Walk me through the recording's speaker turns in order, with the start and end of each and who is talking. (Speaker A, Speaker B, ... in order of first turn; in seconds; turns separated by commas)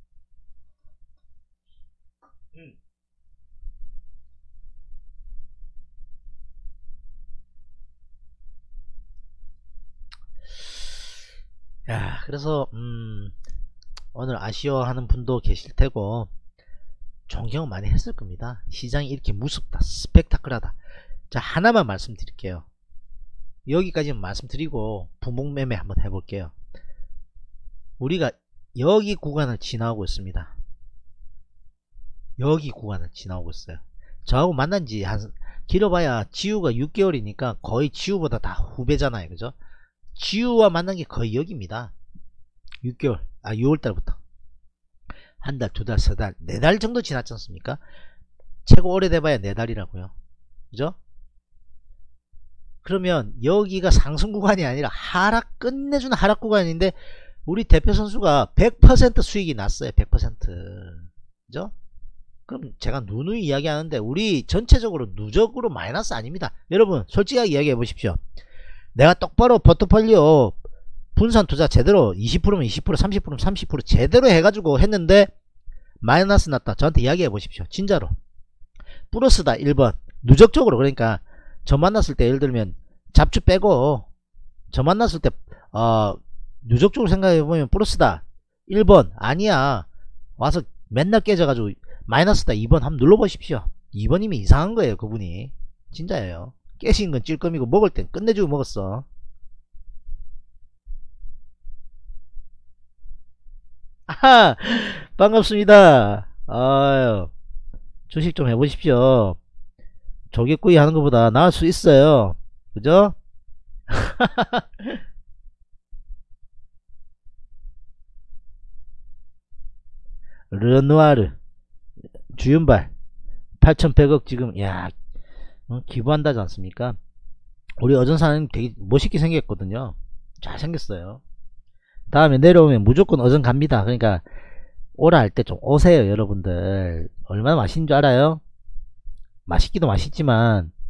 Speaker A: 11.9-13.3, Speaker A: 14.1-16.3, Speaker A: 17.3-20.8, Speaker A: 21.3-22.6, Speaker A: 23.6-26.5, Speaker A: 28.0-30.5, Speaker A: 32.4-39.5, Speaker A: 40.1-41.9, Speaker A: 42.8-44.2, Speaker A: 45.4-47.8, Speaker A: 48.6-50.1, Speaker A: 50.7-51.0, Speaker A: 52.8-61.7, Speaker A: 62.5-68.2, Speaker A: 68.9-70.6, Speaker A: 71.1-75.3, Speaker A: 76.0-78.1, Speaker A: 79.1-84.0, Speaker A: 84.7-89.9, Speaker A: 90.4-99.0, Speaker A: 104.1-107.3, Speaker A: 108.1-109.4, Speaker A: 110.3-113.2, Speaker A: 113.9-115.0, Speaker A: 120.5-121.4, Speaker A: 122.3-122.9, Speaker A: 123.6-124.9, Speaker A: 125.7-127.0, Speaker A: 127.8-131.2, Speaker A: 132.1-134.2, Speaker A: 134.9-138.4, Speaker A: 139.4-140.7